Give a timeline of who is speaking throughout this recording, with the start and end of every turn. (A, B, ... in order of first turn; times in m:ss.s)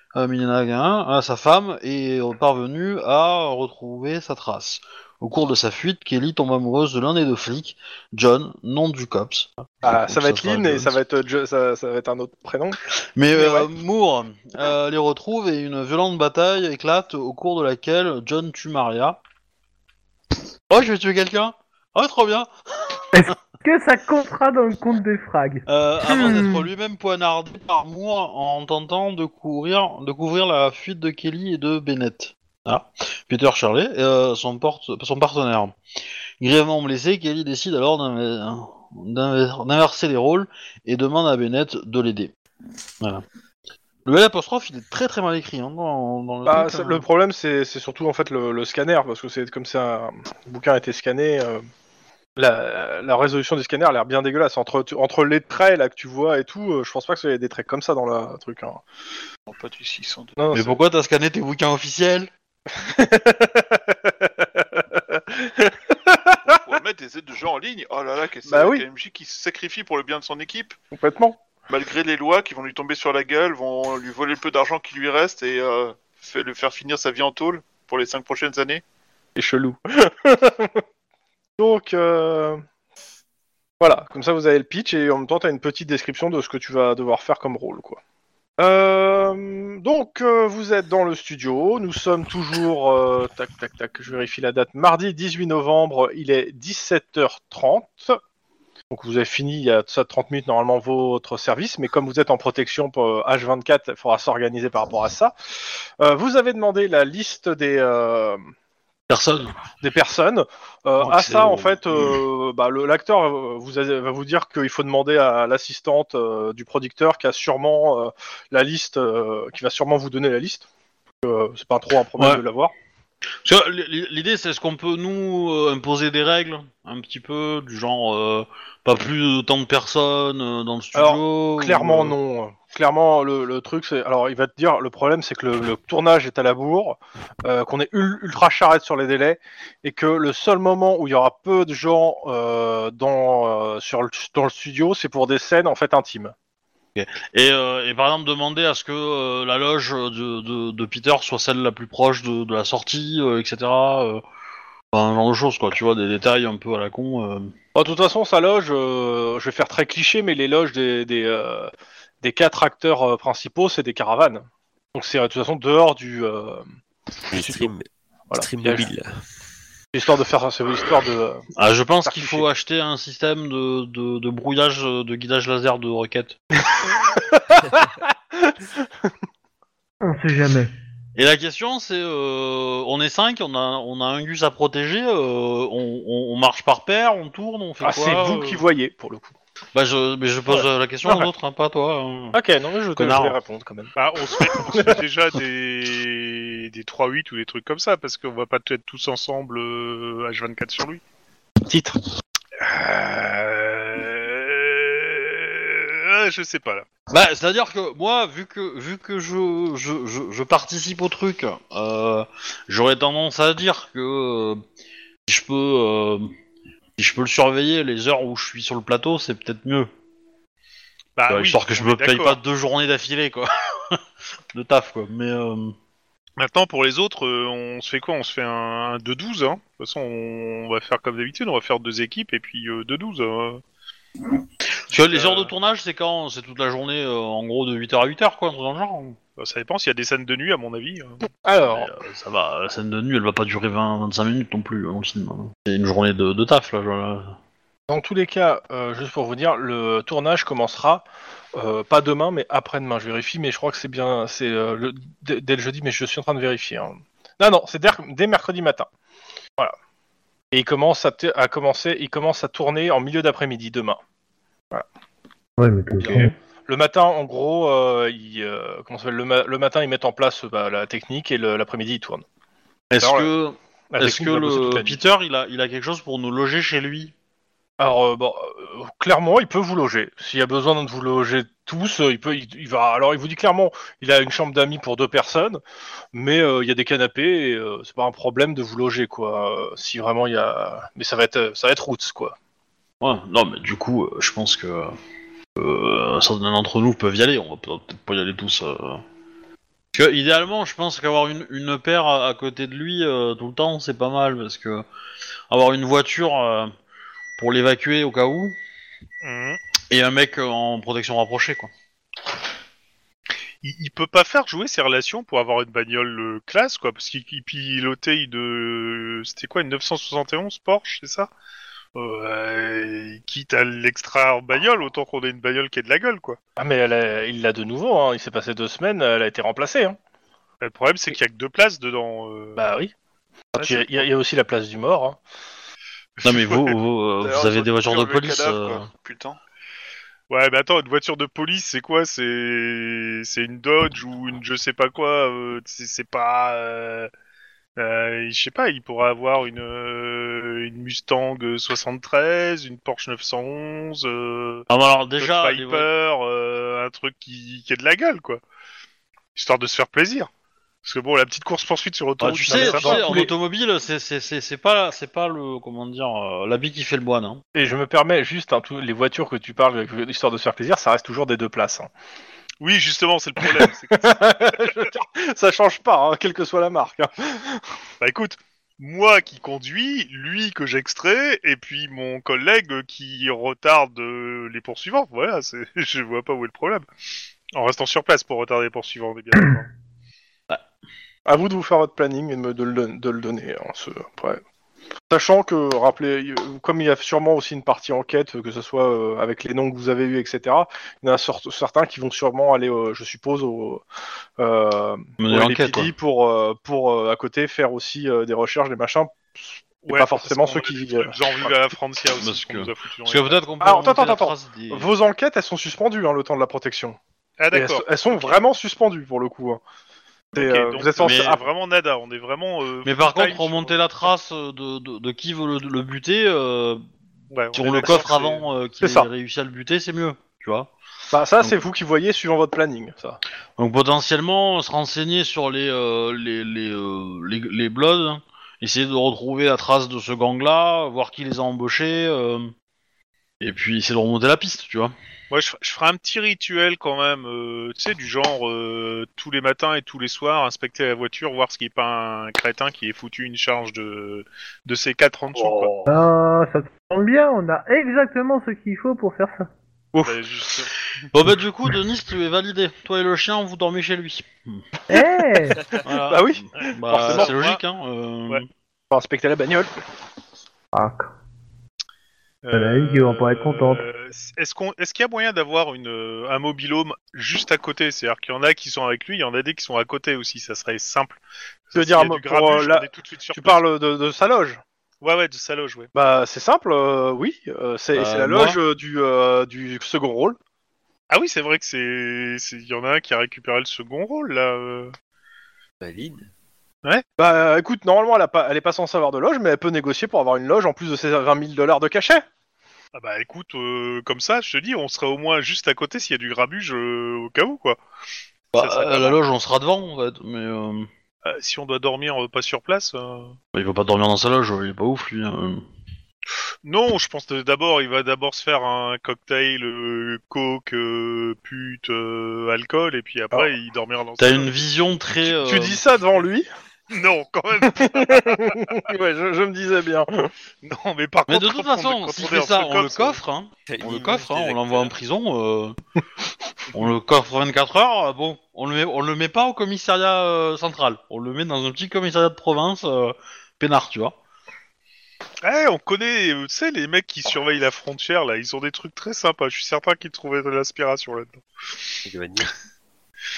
0:00.2-0:11.0 A
0:09.8-0:12.8 B
0:13.2-0:19.2 A
0:13.3-0:13.7 B
0:20.7-0:23.3 A
0:23.1-0:26.7 C
0:25.7-0:35.8 A
0:36.4-0:42.3 A
0:44.1-0:47.0 A
0:46.5-0:51.6 B
0:52.4-0:58.8 B
0:59.5-1:00.4 D
1:00.4-1:00.8 B
1:00.5-1:02.3 A
1:02.7-1:06.5 B
1:06.5-1:10.8 D
1:08.5-1:08.8 B
1:10.9-1:11.4 B
1:11.7-1:18.8 D
1:19.4-1:20.8 B
1:21.6-1:22.6 B
1:23.8-1:28.0 B
1:28.6-1:38.2 B
1:38.9-1:45.4 B
1:46.0-1:48.4 B
1:49.1-1:49.6 A
1:49.8-2:00.7 B
1:51.0-1:52.2 A
2:01.2-2:02.7 B
2:02.2-2:02.4 A
2:03.4-2:12.2 A
2:11.0-2:26.3 B
2:27.0-2:34.2 A
2:34.9-2:37.5 A
2:37.8-2:41.7 B
2:42.2-2:46.6 B
2:47.3-2:49.2 E
2:47.3-2:47.7 B
2:48.3-2:48.9 B
2:49.9-2:51.4 B
2:51.6-2:56.4 A
2:52.1-2:52.5 B
2:56.8-2:58.6 B
3:00.0-3:00.7 C
3:01.2-3:08.6 A
3:07.8-3:09.3 B
3:09.8-3:12.4 A
3:10.5-3:11.3 B
3:12.3-3:15.0 B
3:13.0-3:13.4 A
3:14.0-3:21.0 F
3:21.7-3:22.0 B
3:22.6-3:26.9 F
3:27.1-3:34.6 A
3:35.3-3:36.3 A
3:37.0-3:39.9 A
3:41.2-3:42.4 F
3:41.3-3:44.0 A
3:44.5-3:45.8 A
3:46.4-3:53.6 F
3:54.9-3:59.2 A
3:55.1-3:55.5 F
3:59.4-4:01.2 F
4:01.4-4:01.9 B
4:01.7-4:07.4 A
4:07.9-4:18.9 B
4:20.5-4:24.0 B
4:25.6-4:26.3 C
4:26.0-4:26.3 A
4:26.1-4:32.2 B
4:32.9-4:37.1 A
4:33.0-4:33.3 B
4:33.9-4:35.0 B
4:37.8-4:45.6 B
4:46.1-4:52.4 B
4:53.0-4:55.0 A
4:55.6-4:59.0 A
4:59.9-5:04.8 A
5:05.5-5:06.7 A
5:07.4-5:08.6 A
5:09.2-5:09.6 F
5:09.9-5:11.7 A
5:13.6-5:21.3 F
5:22.0-5:26.4 F
5:26.6-5:30.0 B
5:30.6-5:32.6 F
5:32.6-5:32.9 B
5:33.6-5:35.2 B
5:33.6-5:34.1 F
5:36.2-5:36.8 F
5:36.2-5:38.9 A
5:37.2-5:39.4 D
5:40.3-5:47.1 F
5:47.8-5:54.7 F
5:54.7-5:55.9 A
5:55.2-5:58.4 F
5:59.4-6:00.3 F
6:00.8-6:03.1 F
6:02.2-6:07.4 A
6:02.5-6:03.3 B
6:07.6-6:11.9 B
6:12.6-6:14.9 F
6:13.5-6:17.6 B
6:18.0-6:26.9 F
6:27.6-6:29.7 F
6:31.3-6:34.4 B
6:35.1-6:43.8 B
6:44.4-6:51.5 B
6:45.2-6:45.9 A
6:49.8-6:53.4 F
6:52.2-6:54.9 A
6:53.6-6:57.0 B
6:57.4-6:58.4 F
6:57.5-6:59.6 B
7:00.3-7:04.1 F
7:00.4-7:01.4 B
7:01.0-7:01.4 A
7:02.8-7:06.8 A
7:07.3-7:08.5 F
7:07.5-7:10.7 A
7:08.8-7:09.1 B
7:11.1-7:13.2 B
7:13.6-7:22.5 A
7:23.4-7:25.0 A
7:25.3-7:35.7 F
7:35.3-7:36.0 A
7:35.9-7:39.5 C
7:40.0-7:40.8 F
7:41.1-7:44.6 A
7:44.9-7:45.6 C
7:45.8-7:48.5 A
7:46.1-7:47.3 B
7:46.6-7:47.6 F
7:48.9-7:49.7 B
7:50.7-7:51.1 C
7:52.4-8:03.6 F
7:52.5-7:53.9 C
8:01.8-8:04.6 B
8:05.0-8:05.9 F
8:05.9-8:10.4 B
8:07.9-8:08.6 A
8:11.1-8:14.9 F
8:15.8-8:16.3 E
8:17.2-8:22.2 B
8:23.0-8:27.8 F
8:28.5-8:30.9 A
8:28.6-8:29.2 F
8:31.2-8:33.4 F
8:33.5-8:35.6 A
8:36.6-8:44.5 F
8:44.2-8:45.8 A
8:45.3-8:46.5 B
8:46.9-8:48.8 F
8:47.7-8:50.3 B
8:50.6-8:53.2 F
8:51.3-8:55.8 A
8:53.7-8:54.9 E
8:56.7-9:04.2 A
9:05.4-9:11.4 F
9:12.0-9:12.5 E